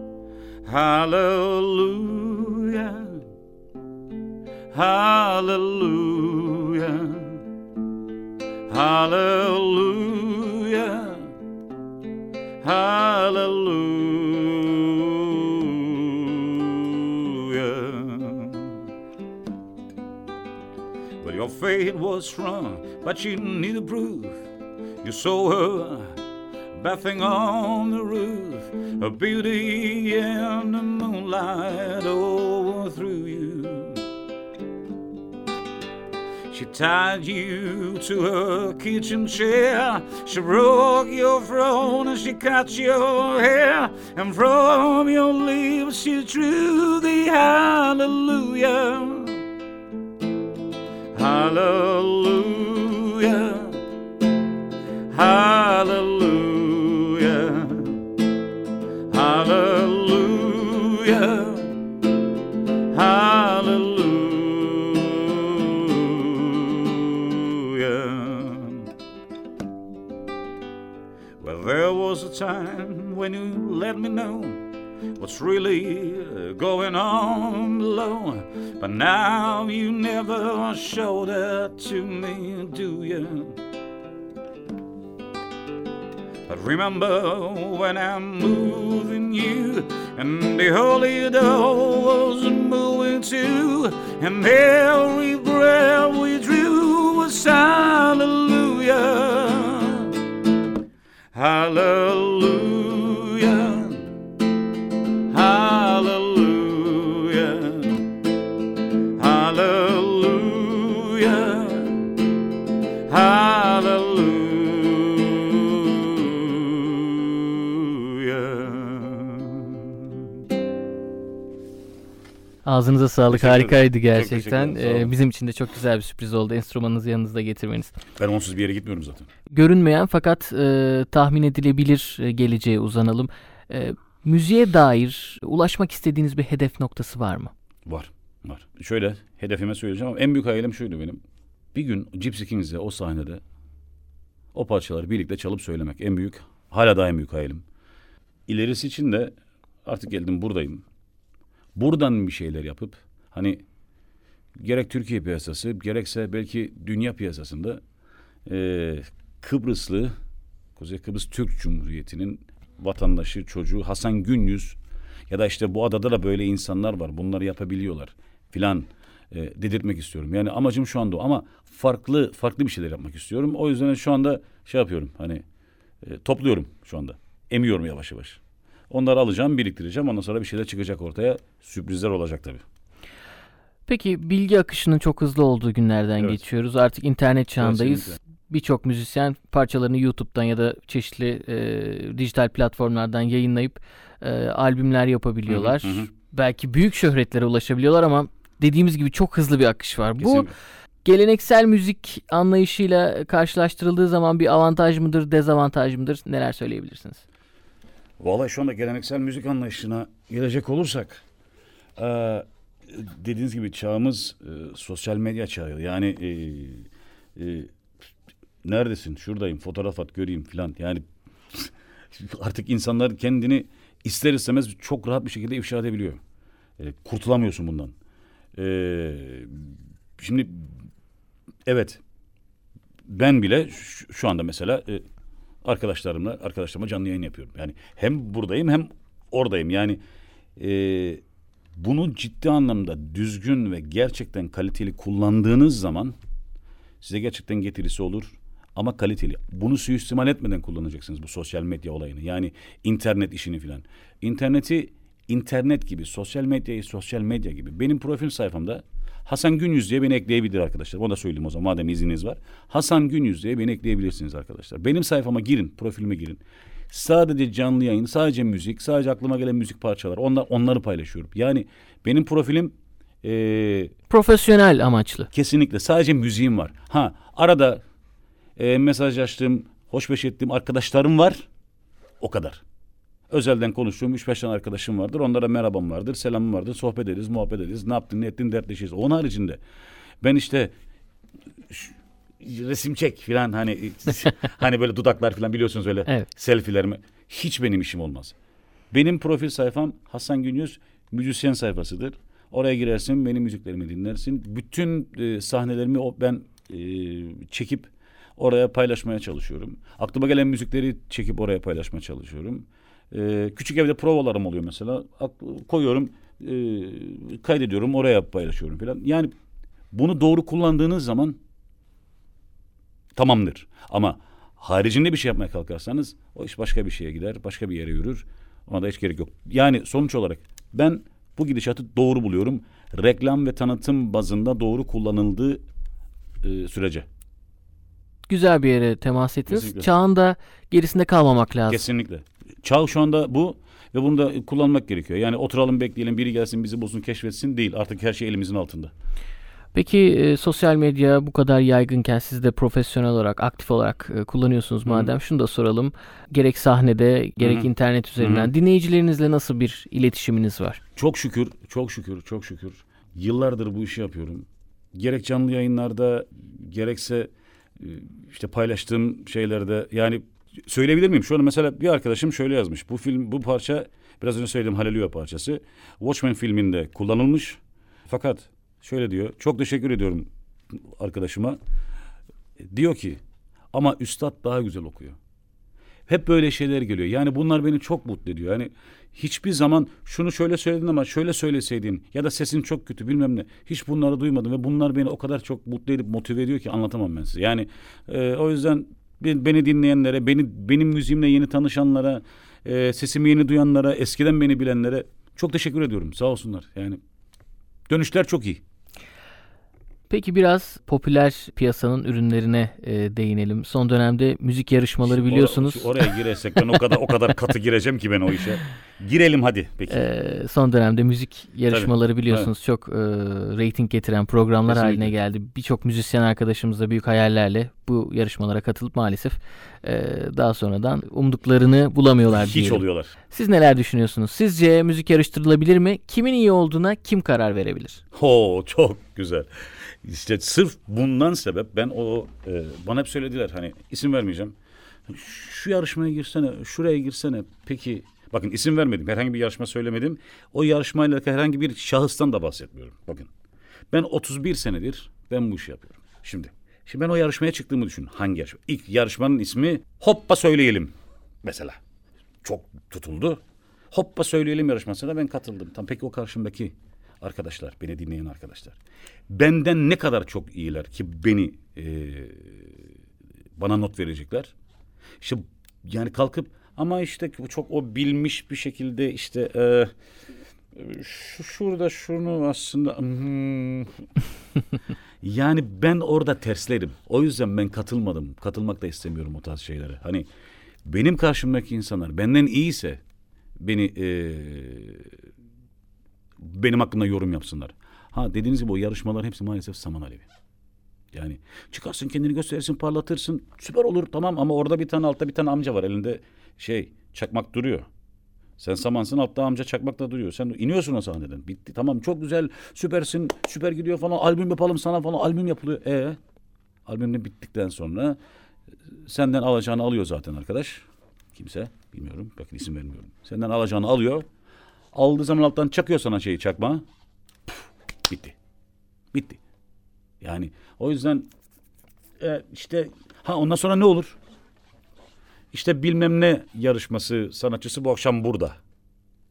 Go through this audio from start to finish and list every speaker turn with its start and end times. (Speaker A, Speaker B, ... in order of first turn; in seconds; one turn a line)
Speaker A: 0.6-3.2
Speaker A: 4.7-7.4
Speaker A: 8.7-11.3
Speaker A: 12.6-18.8
Speaker A: 21.2-24.5
Speaker A: 25.0-26.2
Speaker A: 26.7-34.0
Speaker A: 36.5-49.4
Speaker A: 51.1-53.8
Speaker A: 55.1-58.0
Speaker A: 59.1-61.8
Speaker A: 62.9-68.9
Speaker A: 71.4-83.6
Speaker A: 86.5-100.2
Speaker A: 101.3-104.1
Speaker A: 105.3-108.1
Speaker A: 109.2-112.1
Speaker A: 113.1-120.2
Speaker B: 122.6-128.0
Speaker A: 123.3-125.1
Speaker A: 128.2-129.3
Speaker B: 129.5-137.5
Speaker A: 137.8-141.2
Speaker A: 141.7-143.4
Speaker A: 144.5-147.6
Speaker A: 148.5-150.8
Speaker A: 151.7-153.6
Speaker A: 154.6-157.8
Speaker A: 158.4-160.1
Speaker A: 160.8-164.8
Speaker A: 165.3-175.4
Speaker A: 176.0-182.6
Speaker B: 183.9-200.5
Speaker A: 187.6-188.2
Speaker A: 195.5-196.1
Speaker A: 200.2-200.6
Speaker B: 201.0-207.2
Speaker A: 208.2-211.2
Speaker A: 211.9-217.7
Speaker A: 218.6-226.2
Speaker A: 226.8-227.9
Speaker A: 228.5-230.7
Speaker A: 231.7-232.0
Speaker A: 233.1-235.0
Speaker A: 235.6-240.0
Speaker A: 240.6-241.2
Speaker A: 241.8-246.2
Speaker A: 247.0-273.9
Speaker B: 274.1-275.3
Speaker A: 275.3-277.8
Speaker A: 278.6-281.5
Speaker A: 282.2-282.6
Speaker A: 283.3-289.6
Speaker A: 290.2-290.7
Speaker A: 291.7-298.3
Speaker A: 298.9-319.3
Speaker A: 319.9-321.4
Speaker A: 323.1-335.6
Speaker A: 336.4-337.1
Speaker B: 338.3-341.8
Speaker A: 339.5-339.9
Speaker A: 341.7-348.9
Speaker B: 349.7-360.8
Speaker A: 354.9-355.1
Speaker A: 357.4-358.5
Speaker A: 360.9-381.6
Speaker A: 382.6-383.2
Speaker A: 383.7-385.2
Speaker A: 386.1-407.0
Speaker A: 407.9-408.6
Speaker B: 410.1-415.9
Speaker A: 415.0-420.0
Speaker B: 419.9-438.0
Speaker A: 421.7-422.5
Speaker A: 424.6-425.1
Speaker A: 432.3-433.1
Speaker A: 438.1-444.6
Speaker A: 445.1-453.3
Speaker A: 453.9-461.8
Speaker A: 462.4-463.4
Speaker A: 463.9-472.9
Speaker A: 473.6-474.5
Speaker A: 475.2-479.9
Speaker A: 480.7-484.0
Speaker A: 485.2-490.2
Speaker A: 490.8-493.0
Speaker A: 493.6-495.2
Speaker A: 496.4-500.3
Speaker A: 501.1-507.9
Speaker A: 508.6-516.2
Speaker A: 516.9-518.2
Speaker A: 518.9-524.2
Speaker A: 524.9-526.8
Speaker A: 527.5-528.4
Speaker A: 529.1-529.4
Speaker A: 530.2-531.3
Speaker A: 532.2-534.2
Speaker A: 535.5-538.6